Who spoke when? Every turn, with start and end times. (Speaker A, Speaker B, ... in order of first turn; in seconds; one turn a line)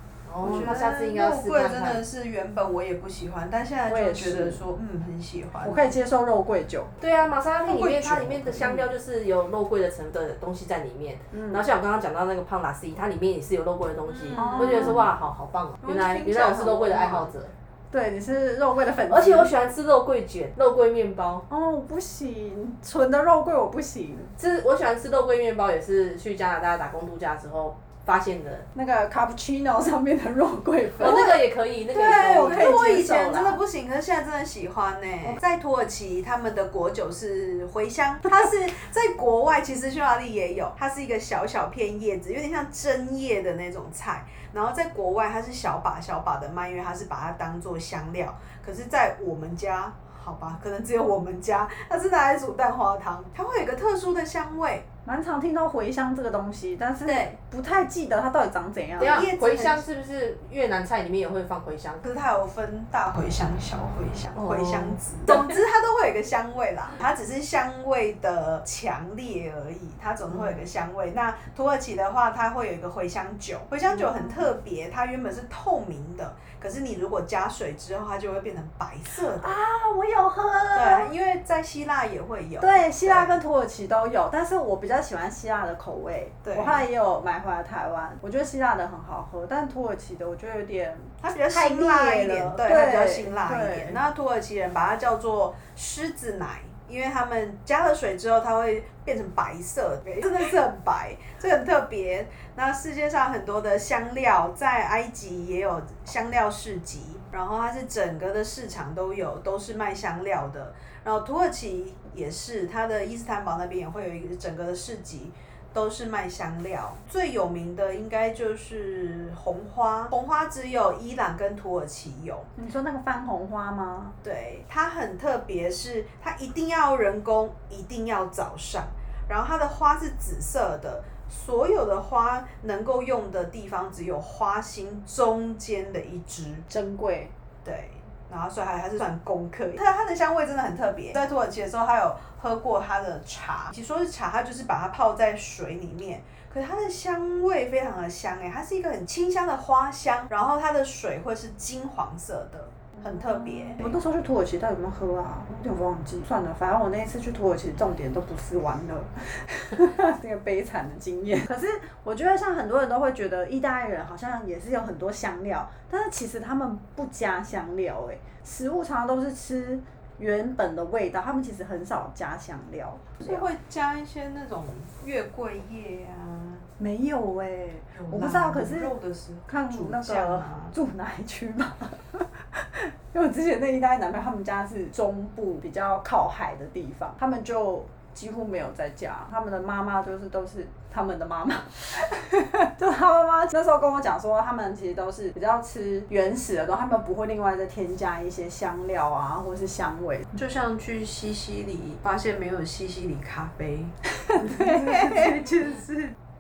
Speaker A: 0.2-2.0
Speaker B: 0.4-5.9
Speaker C: 0.4-0.7
Speaker C: 3.9-4.6
Speaker C: 5.6-6.9
Speaker A: 7.0-17.5
Speaker B: 7.6-8.9
Speaker C: 11.3-11.7
Speaker B: 14.1-15.1
Speaker C: 14.3-15.1
Speaker B: 15.8-17.3
Speaker C: 17.9-19.5
Speaker A: 19.1-21.4
Speaker C: 21.5-24.3
Speaker A: 24.4-28.6
Speaker C: 28.7-31.4
Speaker A: 31.0-33.4
Speaker B: 31.0-31.3
Speaker B: 31.9-54.9
Speaker C: 31.9-33.6
Speaker C: 55.0-59.3
Speaker B: 57.0-57.4
Speaker B: 59.0-59.9
Speaker A: 59.0-62.0
Speaker B: 62.0-79.5
Speaker A: 64.3-65.5
Speaker A: 70.3-70.6
Speaker C: 73.9-74.4
Speaker C: 79.3-81.1
Speaker B: 80.7-83.4
Speaker C: 82.6-94.0
Speaker B: 86.4-86.8
Speaker B: 91.2-122.5
Speaker C: 122.6-124.2
Speaker B: 124.2-136.7
Speaker C: 136.7-137.3
Speaker B: 137.6-154.0
Speaker C: 153.6-173.5
Speaker B: 173.2-176.7
Speaker C: 176.8-178.9
Speaker B: 177.9-180.7
Speaker C: 179.5-200.3
Speaker B: 200.3-206.2
Speaker C: 204.3-205.3